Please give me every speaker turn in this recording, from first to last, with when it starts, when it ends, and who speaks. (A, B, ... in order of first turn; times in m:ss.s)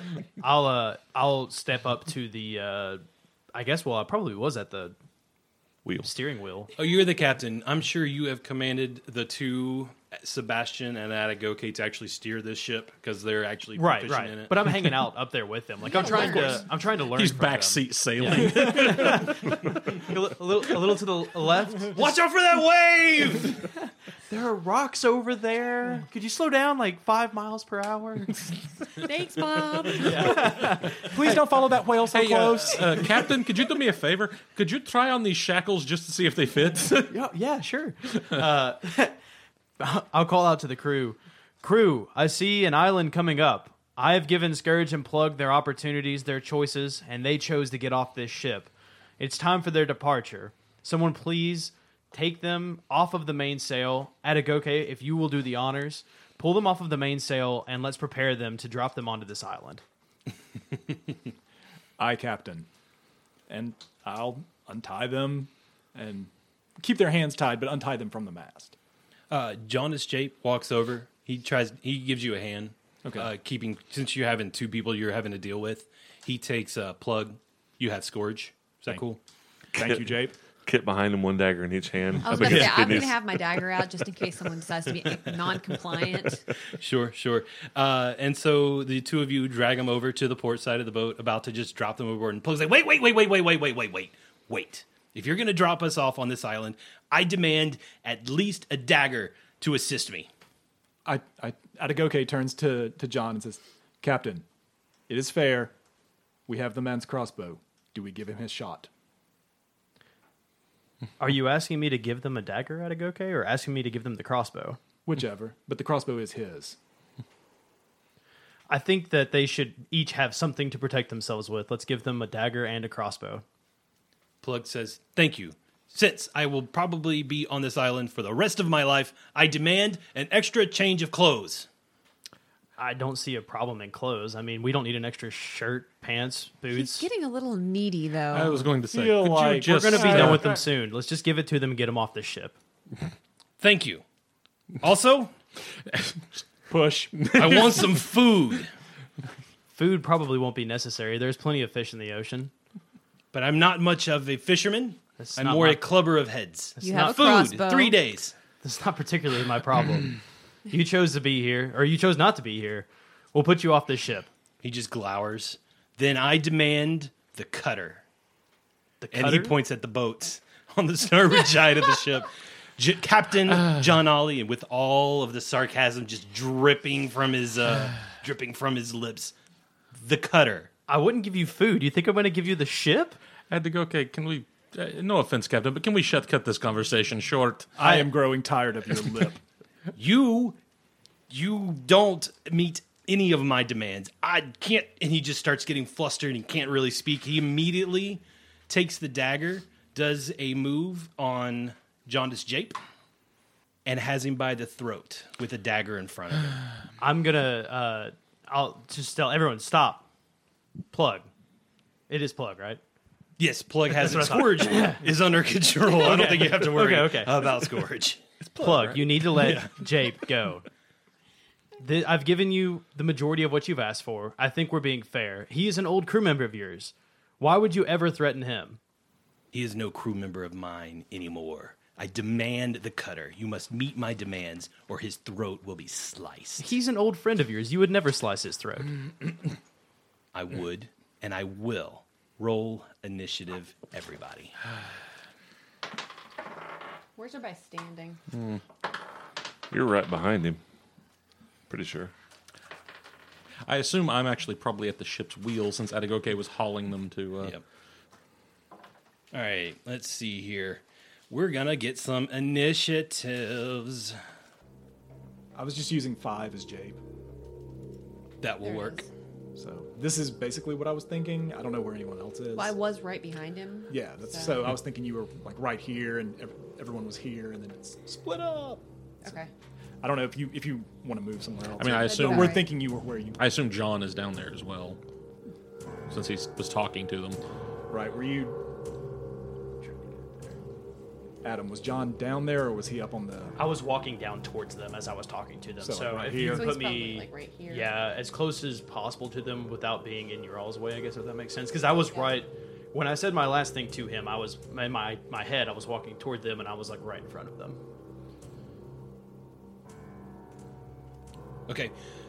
0:00.4-0:04.9 A
0:06.0-0:06.7 A
0:06.8-0:14.6 B
0:13.7-0:22.0 A
0:15.8-0:16.7 C
0:17.1-0:19.7 D
0:21.9-0:23.6 B
0:24.3-0:28.4 A
0:29.0-0:30.5 C
0:29.9-0:31.4 A
0:31.0-0:33.1 E
0:32.0-0:37.1 D
0:37.1-0:39.2 A
0:39.8-0:59.8 A
1:02.0-1:02.7 E
1:03.5-1:08.7 E
1:09.3-1:19.2 B
1:13.0-1:13.3 E
1:19.7-1:20.3 E
1:19.8-1:23.4 F
1:22.2-1:26.4 C
1:22.3-1:23.1 B
1:26.7-1:40.3 B
1:41.0-1:44.4 E
1:45.1-1:45.7 E
1:46.5-1:48.9 E
1:51.2-1:54.8 A
1:55.0-1:56.8 E
1:58.7-2:03.4 A
2:04.4-2:11.7 B
2:12.8-2:17.0 A
2:16.7-2:18.7 C
2:18.3-2:20.6 D
2:18.9-2:20.5 E
2:19.7-2:22.6 A
2:23.6-2:24.0 B
2:24.8-2:25.3 B
2:26.7-2:27.8 E
2:27.3-2:28.7 B
2:29.7-2:32.5 A
2:33.3-2:38.3 B
2:35.2-2:36.0 A
2:36.8-2:37.3 A
2:36.8-2:38.0 C
2:38.6-2:44.3 A
2:44.6-2:48.0 B
2:49.0-2:49.6 A
2:49.1-2:59.3 B
2:59.9-3:00.7 B
3:00.9-3:03.2 A
3:03.5-3:07.7 D
3:07.8-3:09.4 E
3:10.0-3:10.6 B
3:11.3-3:22.8 B
3:23.8-3:26.6 B
3:27.0-3:30.1 A
3:30.9-3:31.3 A
3:32.1-3:32.8 A
3:33.4-3:39.9 B
3:33.9-3:35.0 A
3:35.8-3:37.6 A
3:38.6-3:40.6 A
3:41.8-3:48.8 A
3:49.5-3:56.7 B
3:56.6-3:58.9 A
4:00.3-4:04.5 B
4:07.2-4:08.2 C
4:09.7-4:10.6 F
4:11.7-4:12.1 F
4:13.6-4:17.6 D
4:19.3-4:24.2 B
4:25.5-4:27.0 E
4:28.4-4:29.1 B
4:28.6-4:29.0 C
4:29.6-4:32.7 E
4:32.5-4:34.6 C
4:33.9-4:39.3 E
4:39.2-4:39.5 C
4:40.0-4:43.4 E
4:41.8-4:42.7 D
4:41.9-4:42.7 C
4:43.4-4:45.0 D
4:46.1-4:47.4 D
4:47.9-4:48.6 E
4:51.4-4:53.6 E
4:53.6-5:07.8 A
4:55.8-4:56.7 E
4:56.3-4:58.0 C
5:02.0-5:02.4 C
5:11.7-5:11.9 B